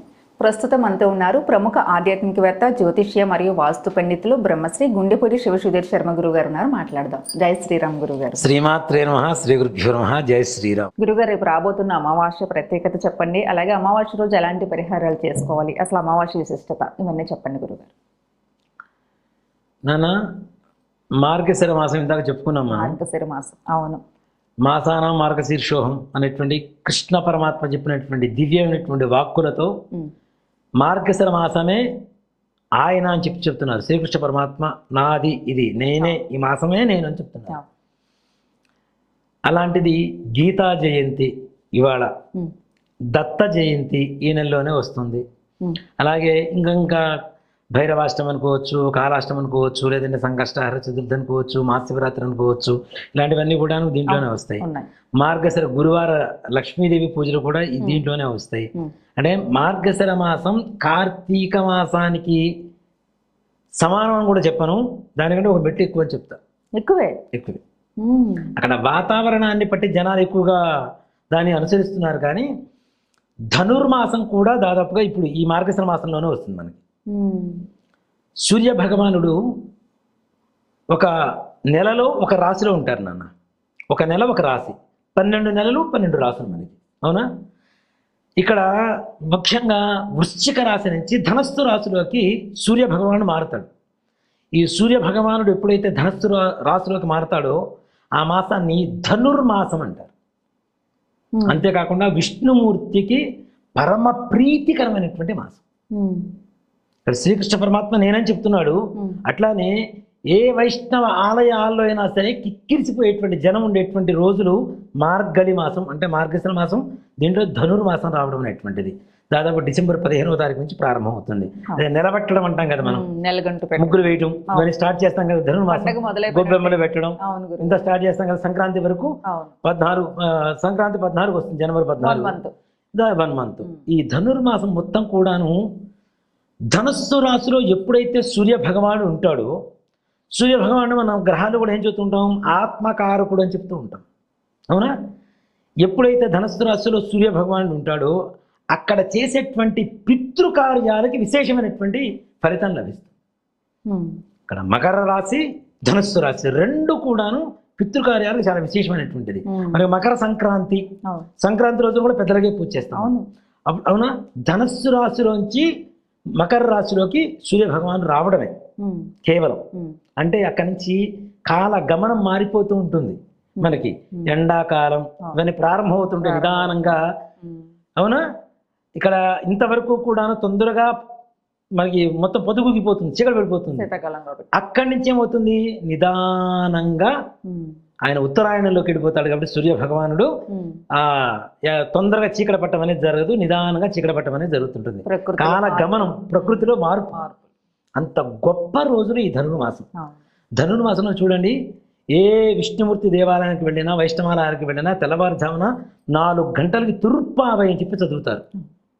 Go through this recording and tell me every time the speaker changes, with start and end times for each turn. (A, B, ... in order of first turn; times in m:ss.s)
0:00.4-0:08.4 A
0:08.4-0:10.9 B
0:11.0-0:17.9 A
0:19.9-0:20.1 B
0:21.2-0:23.0 B
0:22.7-0:24.0 A
0:24.6-0:29.7 B
0:30.8-0:31.8 B
0:32.8-0:37.6 B
0:39.5-0:42.1 B
0:43.1-0:45.2 B
0:46.0-0:47.0 B
0:47.7-0:54.6 B
0:54.1-0:54.9 A
0:55.2-1:02.4 B
1:03.8-1:06.4 B
1:06.8-1:07.2 A
1:07.3-1:07.6 B
1:08.0-1:08.5 A
1:08.6-1:10.6 B
1:11.3-1:12.5 B
1:13.5-1:16.8 B
1:17.1-1:17.6 A
1:18.4-1:19.3 B
1:21.7-1:23.3 B
1:23.9-1:27.2 B
1:28.4-1:28.7 B
1:29.3-1:33.7 B
1:34.6-1:37.6 B
1:38.2-1:40.1 B
1:41.3-1:41.6 A
1:41.5-1:43.2 B
1:43.8-1:45.6 B
1:45.9-1:46.3 A
1:47.1-1:49.8 B
1:50.3-2:03.0 B
2:02.8-2:04.7 A
2:03.8-2:09.1 B
2:05.7-2:07.9 A
2:09.3-2:09.5 A
2:09.6-2:12.3 B
2:12.0-2:12.5 A
2:12.9-2:15.6 B
2:16.7-2:19.5 B
2:20.4-2:24.0 B
2:25.8-2:28.2 B
2:28.7-2:33.1 B
2:33.8-2:34.2 A
2:34.5-2:40.8 B
2:39.5-2:39.8 A
2:41.4-2:43.1 B
2:42.9-2:43.2 A
2:43.7-2:45.7 B
2:46.4-2:48.5 B
2:48.8-2:49.1 A
2:49.2-2:49.6 B
2:50.2-2:57.0 B
2:53.6-2:54.3 A
2:56.2-2:57.6 A
2:59.0-3:00.9 B
3:01.8-3:03.9 B
3:03.8-3:04.5 A
3:04.5-3:07.1 B
3:07.5-3:07.8 A
3:08.0-3:10.3 B
3:10.5-3:10.8 A
3:10.9-3:17.2 B
3:15.0-3:17.4 A
3:18.0-3:19.9 B
3:20.6-3:21.6 B
3:22.1-3:28.4 B